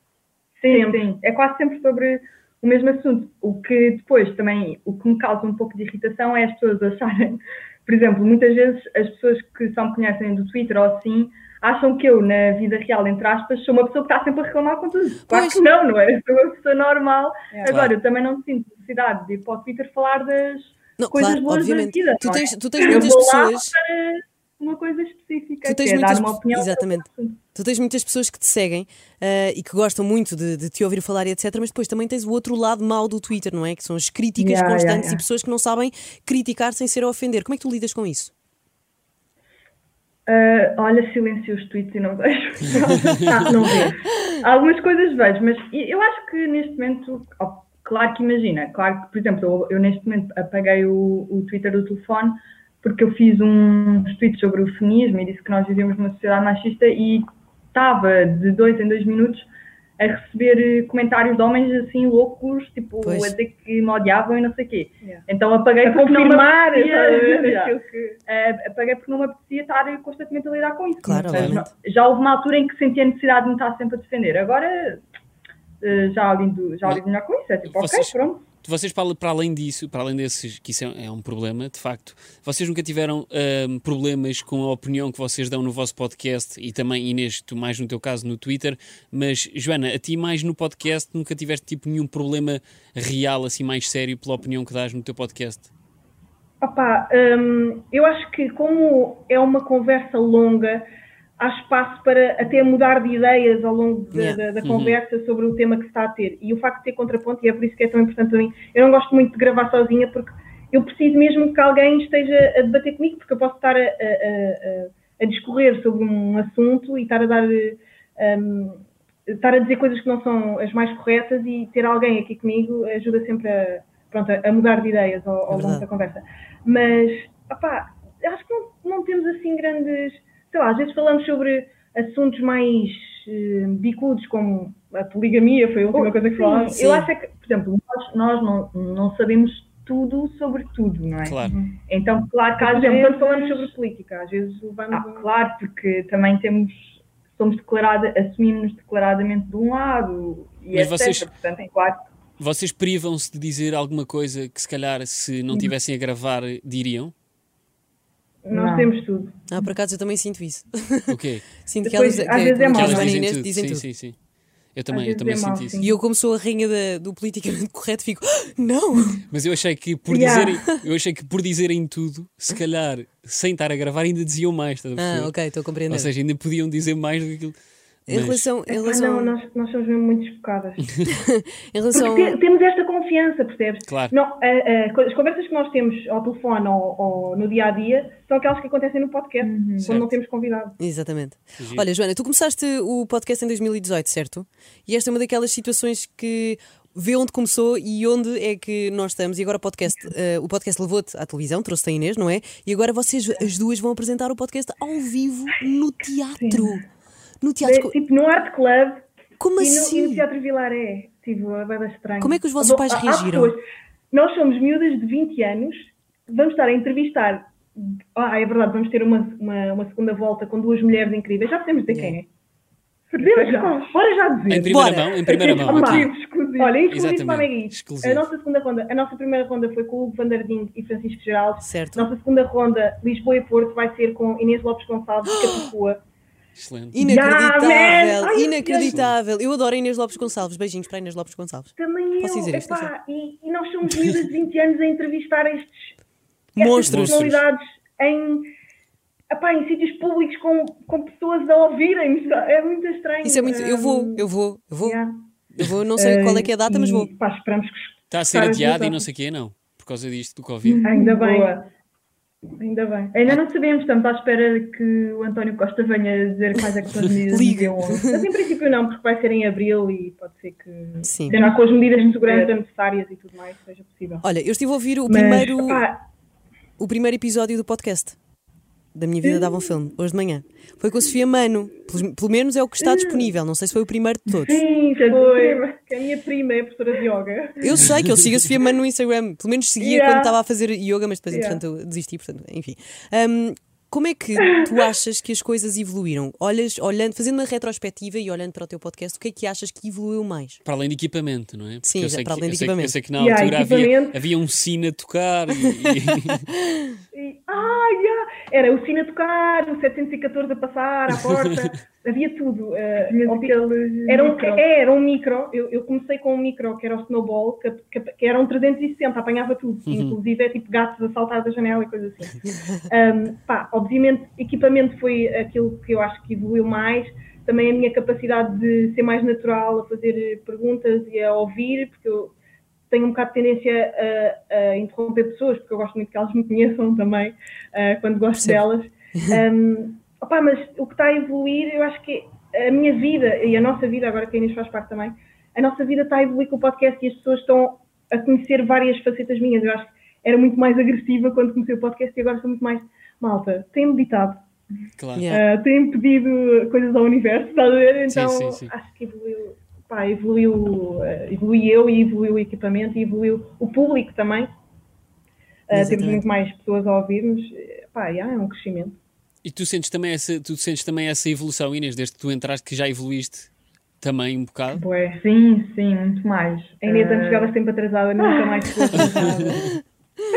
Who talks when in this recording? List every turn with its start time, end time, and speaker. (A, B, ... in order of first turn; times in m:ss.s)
0:00.6-0:27.4 A
0:00.6-0:01.0 B
0:15.3-0:15.7 C
0:17.7-0:17.9 D
0:21.0-0:23.7 C
0:25.6-0:38.3 C
0:34.4-0:35.2 A
0:40.3-1:15.0 A
0:42.8-0:44.0 B
1:03.0-1:03.4 C
1:05.8-1:08.2 B
1:11.0-1:11.7 C
1:11.3-1:11.6 D
1:15.8-1:18.4 A
1:17.7-1:35.7 D
1:36.6-1:40.8 B
1:41.4-2:17.1 B
1:44.1-1:44.4 C
1:44.6-1:45.0 D
2:05.5-2:05.8 C
2:15.9-2:23.7 A
2:21.2-2:21.5 D
2:21.5-2:21.7 B
2:22.6-2:25.3 B
2:24.9-2:32.1 A
2:30.7-2:31.3 D
2:32.4-2:37.1 D
2:38.4-2:39.4 B
2:38.5-2:38.9 A
2:39.5-2:43.8 C
2:41.1-2:41.5 D
2:41.8-2:43.2 B
2:42.7-2:44.2 D
2:44.7-2:45.8 D
2:44.9-2:45.9 A
2:45.2-2:45.9 B
2:45.8-2:49.2 C
2:49.3-2:55.3 D
2:50.1-2:50.5 B
2:55.0-2:56.1 C
2:55.9-2:57.6 D
2:58.1-2:59.3 C
2:58.1-2:58.4 D
2:58.7-3:00.9 B
3:01.1-3:02.4 C
3:01.9-3:10.8 B
3:03.9-3:04.1 D
3:09.4-3:10.0 A
3:10.8-3:26.8 C
3:11.6-3:11.8 D
3:26.4-3:26.7 B
3:27.4-3:27.9 C
3:27.6-3:29.0 B
3:29.4-3:30.2 C
3:29.6-3:33.6 B
3:32.2-3:33.6 C
3:34.1-3:42.3 B
3:41.9-3:42.2 C
3:43.1-3:44.0 A
3:43.2-3:56.0 B
3:44.5-3:46.1 D
3:44.6-3:45.2 C
3:45.2-3:46.8 A
3:46.9-3:48.3 D
3:51.6-3:52.1 C
3:55.2-3:55.7 C
3:56.6-3:56.9 D
3:56.9-4:02.9 C
3:57.0-3:59.0 B
3:58.9-3:59.1 D
4:01.8-4:05.9 B
4:06.5-4:07.3 C
4:06.6-4:08.5 B
4:06.8-4:07.4 D
4:09.3-4:14.3 B
4:13.2-4:15.0 C
4:14.8-4:15.2 B
4:15.6-4:17.1 C
4:16.0-4:19.0 B
4:18.1-4:20.8 D
4:20.6-4:21.7 A
4:20.8-4:21.5 B
4:22.6-4:23.1 B
4:23.1-4:28.1 A
4:27.3-4:28.2 C
4:28.1-4:34.2 B
4:31.0-4:31.4 C
4:31.3-4:32.5 A
4:34.2-4:35.8 C
4:35.1-4:36.0 B
4:36.8-4:38.2 C
4:38.9-4:44.6 C
4:44.4-4:45.7 A
4:44.5-4:47.6 B
4:47.6-5:00.6 C
4:49.8-4:50.3 B
4:51.3-4:51.6 B
5:00.6-5:06.4 D
5:01.8-5:02.9 C
5:03.2-5:04.2 B
5:05.7-5:07.0 C
5:07.1-5:32.3 B
5:11.2-5:11.5 D
5:13.0-5:14.7 A
5:19.9-5:20.2 D
5:32.9-5:54.4 B
5:55.0-5:55.3 D
5:55.2-5:55.4 C
5:55.3-6:04.5 B
5:58.1-5:58.7 D
6:05.7-6:09.0 B
6:05.7-6:06.2 C
6:09.4-6:13.5 D
6:14.0-6:14.8 D
6:14.7-6:15.2 B
6:15.2-6:17.5 A
6:16.8-6:19.7 B
6:18.3-6:19.4 A